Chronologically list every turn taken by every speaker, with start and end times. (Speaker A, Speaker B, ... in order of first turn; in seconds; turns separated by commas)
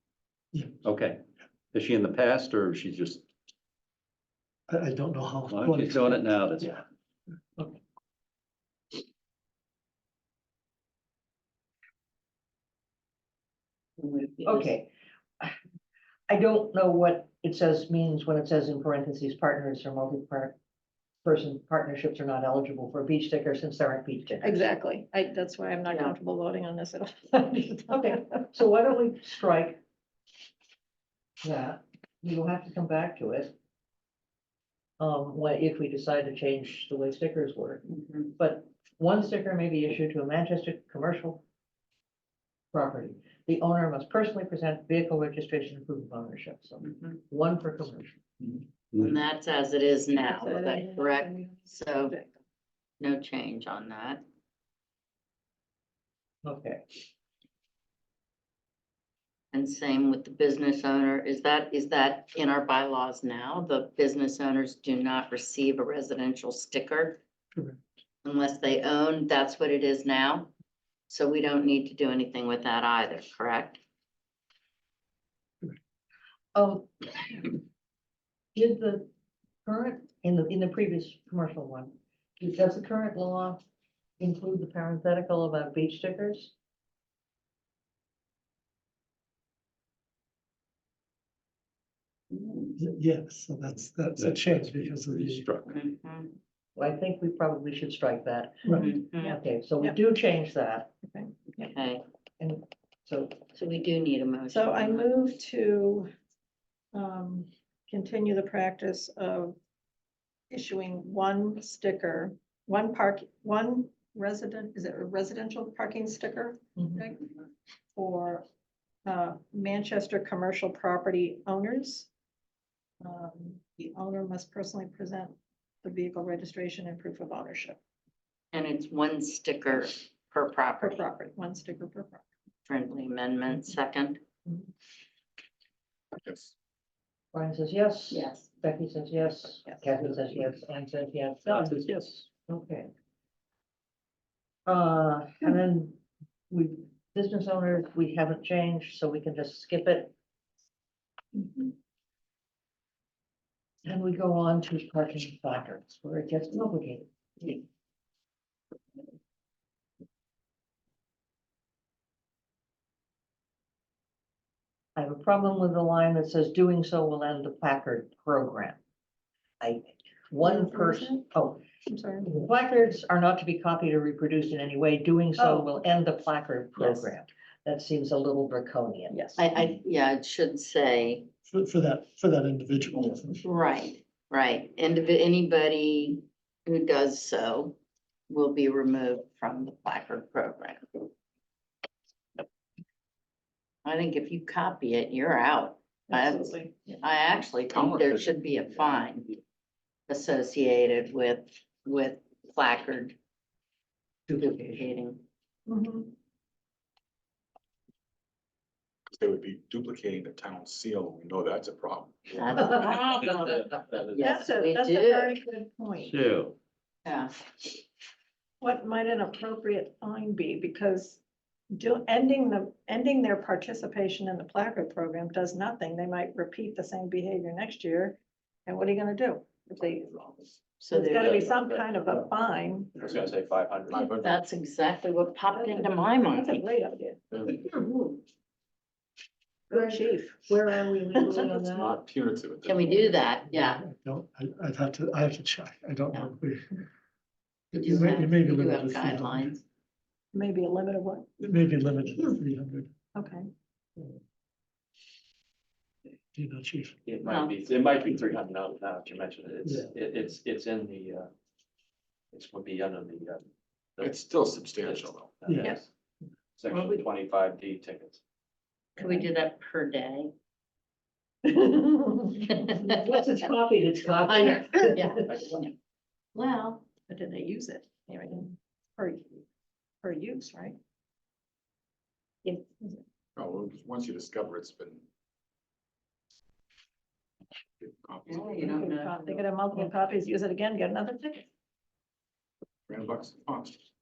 Speaker A: 0.5-0.8, Speaker B: 0.8-1.2, Speaker B: 1.7-3.2, Speaker A: 4.7-6.8, Speaker B: 5.5-6.7, Speaker C: 14.0-14.7, Speaker D: 14.4-15.6, Speaker D: 16.3-20.6, Speaker D: 21.2-24.6, Speaker E: 24.4-27.9, Speaker C: 25.9-26.2, Speaker D: 27.9-29.8, Speaker D: 31.4-33.5, Speaker D: 35.0-41.4, Speaker C: 37.9-38.3, Speaker D: 42.7-48.2, Speaker C: 46.8-47.2, Speaker C: 49.0-52.2, Speaker E: 50.1-52.3, Speaker C: 53.0-54.2, Speaker D: 56.4-56.8, Speaker C: 59.5-67.2, Speaker C: 68.2-70.5, Speaker C: 71.1-73.8, Speaker D: 76.5-77.1, Speaker D: 78.5-79.1, Speaker D: 79.7-83.6, Speaker D: 84.2-86.5, Speaker C: 92.3-92.8, Speaker A: 92.8-95.5, Speaker B: 94.2-95.8, Speaker C: 95.7-96.3, Speaker D: 96.8-100.9, Speaker E: 98.7-100.0, Speaker C: 98.7-99.4, Speaker E: 101.1-101.7, Speaker C: 101.6-102.0, Speaker D: 102.4-103.4, Speaker C: 103.5-105.2, Speaker E: 104.5-106.1, Speaker E: 106.9-109.6, Speaker E: 110.5-117.3, Speaker E: 118.0-118.5, Speaker E: 119.1-122.1, Speaker E: 123.0-127.8, Speaker C: 128.5-131.1, Speaker E: 130.8-132.2, Speaker C: 132.7-134.2, Speaker F: 136.2-136.5, Speaker D: 137.3-141.8, Speaker C: 138.1-138.5, Speaker B: 141.5-142.2, Speaker D: 142.5-142.9, Speaker D: 144.7-146.0, Speaker D: 146.5-150.1, Speaker D: 153.8-157.6, Speaker D: 165.0-168.8, Speaker D: 169.6-171.6, Speaker E: 170.4-171.2, Speaker E: 171.9-172.3, Speaker D: 172.2-179.2, Speaker E: 175.4-175.8, Speaker E: 176.8-177.1, Speaker E: 179.1-179.4, Speaker C: 179.4-181.3, Speaker A: 181.5-183.4, Speaker C: 183.4-187.8, Speaker C: 188.3-191.0, Speaker C: 193.8-199.4, Speaker E: 196.1-197.0, Speaker F: 197.7-198.3, Speaker C: 200.1-203.2, Speaker D: 204.3-204.8, Speaker C: 204.3-205.2, Speaker E: 205.7-206.1, Speaker F: 209.1-212.3, Speaker C: 212.3-215.4, Speaker B: 213.2-213.8, Speaker E: 214.2-216.2, Speaker B: 216.0-216.6, Speaker C: 217.1-217.3, Speaker E: 218.6-221.2, Speaker E: 221.7-230.3, Speaker C: 230.8-231.5, Speaker E: 230.9-233.1, Speaker G: 231.3-231.8, Speaker G: 233.1-234.0, Speaker F: 233.9-234.4, Speaker C: 234.2-236.6, Speaker E: 235.6-237.2, Speaker F: 237.3-237.6, Speaker E: 239.7-241.5, Speaker D: 239.7-241.9, Speaker F: 241.4-243.4, Speaker C: 242.7-243.8, Speaker A: 243.5-246.7, Speaker A: 247.7-249.6, Speaker C: 247.8-249.6, Speaker E: 250.3-251.3, Speaker A: 251.4-252.9, Speaker E: 253.2-253.5, Speaker A: 256.4-257.0, Speaker G: 257.1-261.2, Speaker C: 257.2-257.5, Speaker B: 257.5-259.1, Speaker A: 259.6-259.9, Speaker B: 260.2-261.3, Speaker G: 262.3-263.4, Speaker B: 262.4-263.2, Speaker F: 264.0-265.4, Speaker G: 264.9-265.8, Speaker A: 265.4-265.8, Speaker G: 266.6-268.2, Speaker B: 266.6-267.8, Speaker C: 266.7-267.0, Speaker C: 269.0-270.3, Speaker E: 271.5-272.4, Speaker C: 272.5-273.0, Speaker D: 272.7-275.4, Speaker C: 274.2-275.7, Speaker C: 276.4-276.9, Speaker E: 277.1-279.4, Speaker E: 280.0-280.8, Speaker E: 282.4-283.0, Speaker F: 283.4-285.0, Speaker F: 287.8-288.8, Speaker C: 288.3-289.9, Speaker E: 288.7-291.5, Speaker F: 292.9-293.8